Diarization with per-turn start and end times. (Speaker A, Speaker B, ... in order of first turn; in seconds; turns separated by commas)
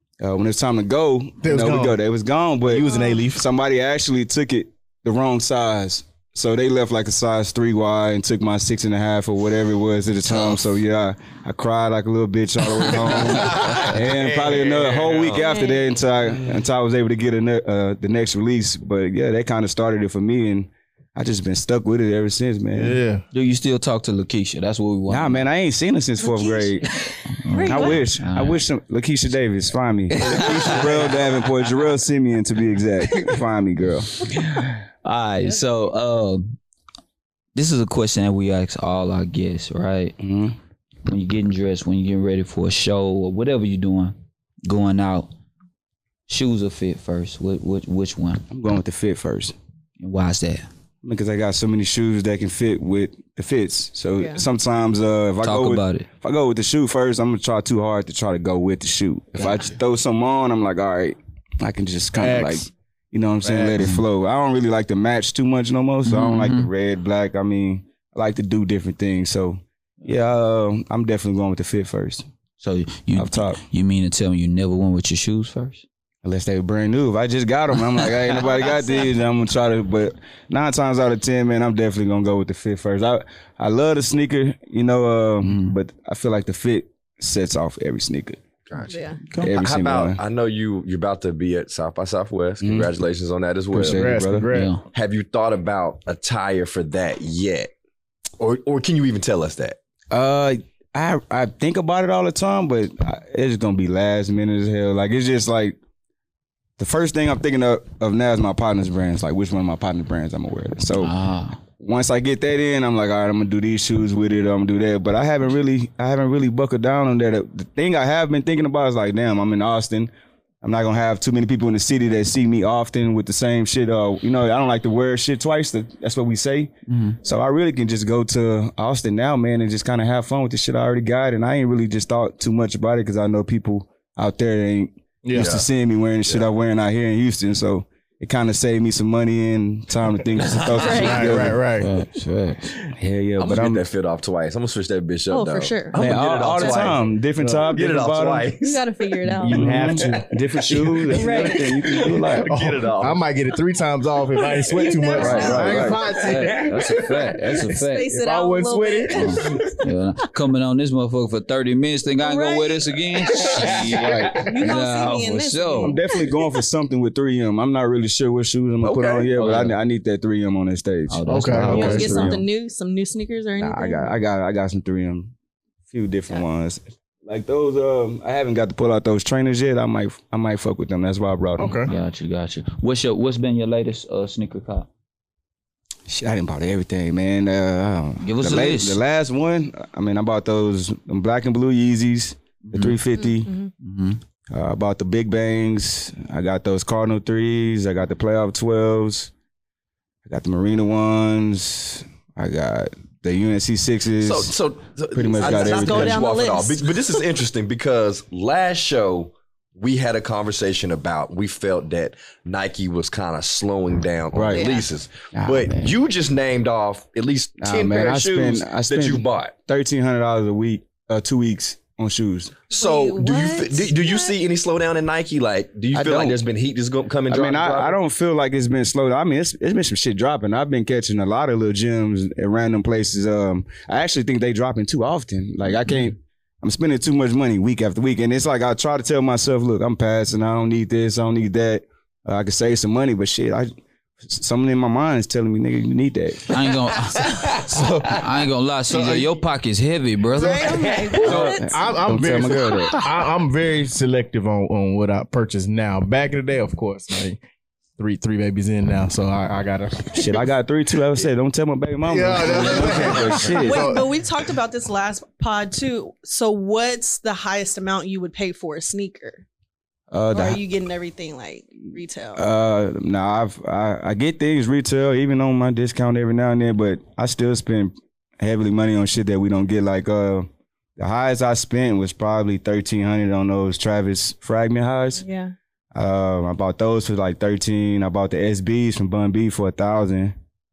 Speaker A: 0.2-23.0, Speaker B: 1.4-2.0, Speaker B: 2.7-3.4, Speaker C: 2.9-3.2, Speaker D: 10.3-10.7, Speaker E: 13.2-15.5, Speaker D: 13.4-13.9, Speaker C: 15.3-15.9, Speaker B: 22.8-23.2, Speaker D: 23.3-25.4, Speaker A: 25.1-26.9, Speaker C: 26.2-26.7, Speaker D: 27.2-28.6, Speaker C: 27.5-28.0, Speaker A: 27.6-34.3, Speaker D: 30.1-31.1, Speaker D: 34.4-36.6, Speaker D: 37.5-40.2, Speaker A: 40.2-40.6, Speaker D: 41.1-45.3, Speaker D: 46.3-48.5, Speaker A: 48.5-49.5, Speaker D: 50.0-50.6, Speaker A: 51.0-72.2, Speaker C: 54.2-54.4, Speaker D: 55.4-56.1, Speaker B: 62.2-62.6, Speaker B: 63.4-63.8, Speaker D: 66.0-66.7, Speaker D: 72.6-75.8, Speaker A: 73.2-73.6, Speaker A: 76.2-88.4, Speaker C: 78.3-79.1, Speaker D: 85.4-85.8, Speaker E: 88.7-94.2, Speaker C: 88.9-89.2, Speaker A: 89.3-90.2, Speaker A: 92.6-92.9, Speaker A: 93.7-94.5, Speaker B: 93.8-94.7, Speaker D: 94.5-94.8, Speaker E: 94.9-97.7, Speaker E: 98.4-99.8, Speaker A: 100.1-105.8, Speaker A: 106.8-111.2, Speaker D: 111.0-111.6, Speaker A: 111.8-141.6, Speaker D: 126.9-127.2, Speaker B: 135.2-135.5, Speaker E: 135.3-135.7, Speaker C: 140.8-141.4, Speaker B: 140.8-141.9, Speaker D: 141.4-142.8, Speaker A: 142.9-143.8, Speaker E: 143.4-147.0, Speaker C: 145.3-146.0, Speaker A: 145.9-148.5, Speaker C: 146.6-146.9, Speaker B: 147.4-147.7, Speaker E: 147.7-148.8, Speaker C: 148.6-149.9, Speaker B: 149.4-151.4, Speaker A: 149.4-152.5, Speaker E: 150.0-150.2, Speaker C: 151.1-151.8, Speaker E: 151.3-153.2, Speaker B: 152.4-157.0, Speaker E: 154.4-157.4, Speaker C: 154.7-156.1, Speaker A: 155.2-156.0, Speaker D: 155.4-158.2, Speaker C: 157.7-159.6, Speaker B: 158.1-159.7, Speaker D: 159.1-166.0, Speaker C: 162.2-163.7, Speaker E: 163.3-164.4, Speaker A: 163.7-164.9, Speaker C: 164.2-166.4, Speaker A: 165.8-172.4, Speaker E: 168.8-169.3, Speaker D: 169.4-169.8, Speaker D: 171.1-172.4, Speaker B: 171.3-172.1, Speaker C: 171.7-174.1, Speaker A: 173.6-175.3, Speaker A: 175.9-181.9, Speaker B: 181.6-181.9, Speaker D: 181.9-184.9, Speaker A: 186.1-193.5, Speaker D: 188.2-189.0, Speaker D: 192.7-193.0, Speaker C: 193.2-193.7, Speaker D: 193.8-194.2, Speaker A: 194.5-199.3, Speaker A: 200.2-204.6, Speaker E: 204.2-219.5, Speaker A: 205.1-206.3, Speaker C: 205.4-207.2, Speaker A: 214.3-214.7, Speaker C: 214.5-214.9, Speaker A: 215.3-216.0, Speaker A: 217.6-222.6, Speaker E: 222.7-228.0, Speaker C: 222.7-224.3, Speaker A: 225.9-226.4, Speaker A: 227.3-246.5, Speaker D: 246.5-251.0, Speaker E: 247.2-247.5, Speaker B: 247.5-248.1, Speaker B: 248.9-249.4, Speaker C: 250.3-252.1, Speaker E: 250.7-251.2, Speaker B: 251.1-257.4, Speaker A: 251.2-253.0, Speaker B: 258.0-260.4, Speaker A: 260.1-264.0, Speaker B: 262.1-264.1, Speaker C: 262.8-269.4, Speaker A: 270.1-270.6, Speaker C: 270.3-272.4, Speaker A: 272.4-285.2, Speaker C: 285.2-285.5, Speaker A: 285.9-290.4